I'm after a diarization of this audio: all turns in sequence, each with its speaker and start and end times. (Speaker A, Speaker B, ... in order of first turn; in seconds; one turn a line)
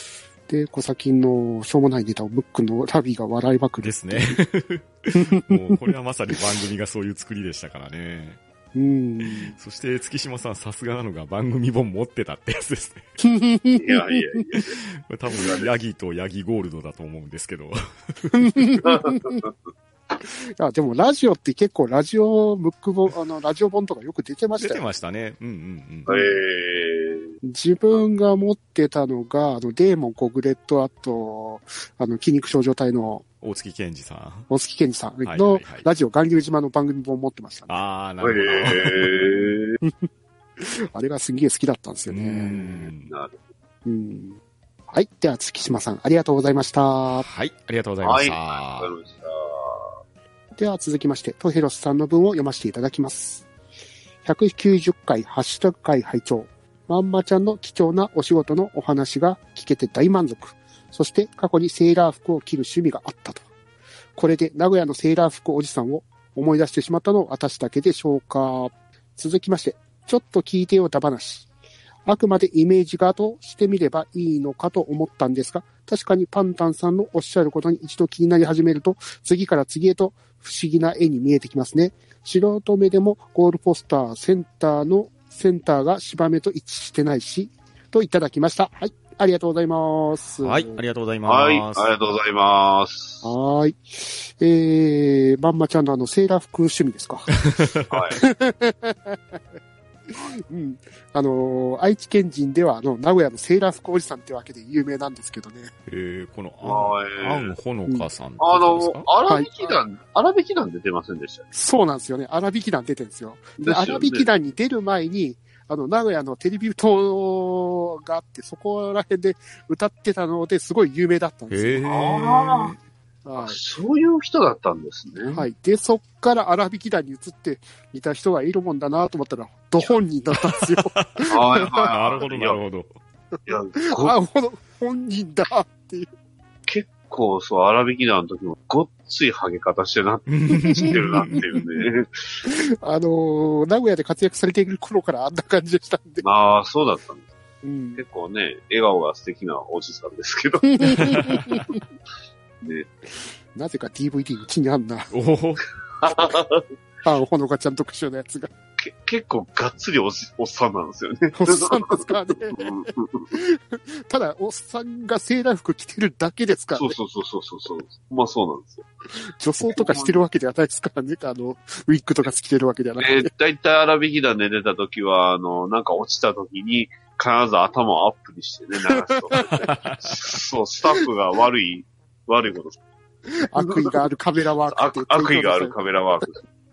Speaker A: 0.5-4.4
Speaker B: 3.8-8.4
Speaker A: 5.2-5.8
Speaker A: 8.8-9.5
Speaker B: 9.2-13.1
Speaker A: 13.2-14.2
Speaker C: 13.8-14.8
Speaker B: 14.8-18.6
Speaker C: 15.3-15.7
Speaker A: 18.3-19.4
Speaker C: 18.8-19.5
Speaker A: 20.2-24.8
Speaker B: 24.6-26.1
Speaker C: 26.1-27.3
Speaker A: 26.1-26.4
Speaker A: 27.4-33.2
Speaker B: 33.4-34.5
Speaker A: 34.5-37.7
Speaker B: 35.2-35.9
Speaker B: 37.7-39.5
Speaker C: 38.2-39.8
Speaker A: 39.8-42.9
Speaker B: 42.1-43.1
Speaker C: 42.9-43.4
Speaker A: 43.9-44.4
Speaker A: 44.9-47.2
Speaker B: 47.1-48.9
Speaker C: 48.0-49.9
Speaker A: 50.6-53.5
Speaker A: 54.2-63.5
Speaker A: 64.2-71.5
Speaker A: 72.1-90.8
Speaker B: 90.4-91.9
Speaker C: 91.3-93.3
Speaker A: 93.2-97.3
Speaker B: 97.3-97.9
Speaker C: 97.9-98.2
Speaker A: 98.2-99.4
Speaker A: 100.1-105.7
Speaker B: 105.9-109.1
Speaker C: 106.6-107.5
Speaker C: 108.4-111.5
Speaker A: 109.3-109.8
Speaker A: 111.5-121.9
Speaker C: 113.6-114.3
Speaker B: 121.5-122.8
Speaker C: 121.8-122.8
Speaker A: 123.2-123.6
Speaker C: 123.4-125.4
Speaker A: 125.3-131.8
Speaker B: 130.3-132.9
Speaker C: 131.3-132.6
Speaker C: 133.5-134.2
Speaker A: 133.8-136.1
Speaker C: 136.7-142.4
Speaker B: 140.3-141.4
Speaker A: 140.8-141.4
Speaker A: 142.4-146.2
Speaker C: 146.2-147.3
Speaker A: 147.6-148.0
Speaker C: 148.0-151.2
Speaker A: 150.7-151.6
Speaker B: 150.9-151.7
Speaker C: 152.6-152.9
Speaker A: 153.5-155.1
Speaker B: 155.1-155.6
Speaker C: 156.0-156.7
Speaker A: 157.1-158.5
Speaker C: 158.8-163.3
Speaker A: 161.3-162.7
Speaker A: 163.3-166.9
Speaker C: 166.8-168.9
Speaker A: 169.3-173.3
Speaker C: 169.7-170.2
Speaker C: 173.0-182.8
Speaker A: 178.9-179.5
Speaker B: 179.4-180.2
Speaker A: 183.4-186.2
Speaker C: 183.6-184.0
Speaker C: 184.7-186.4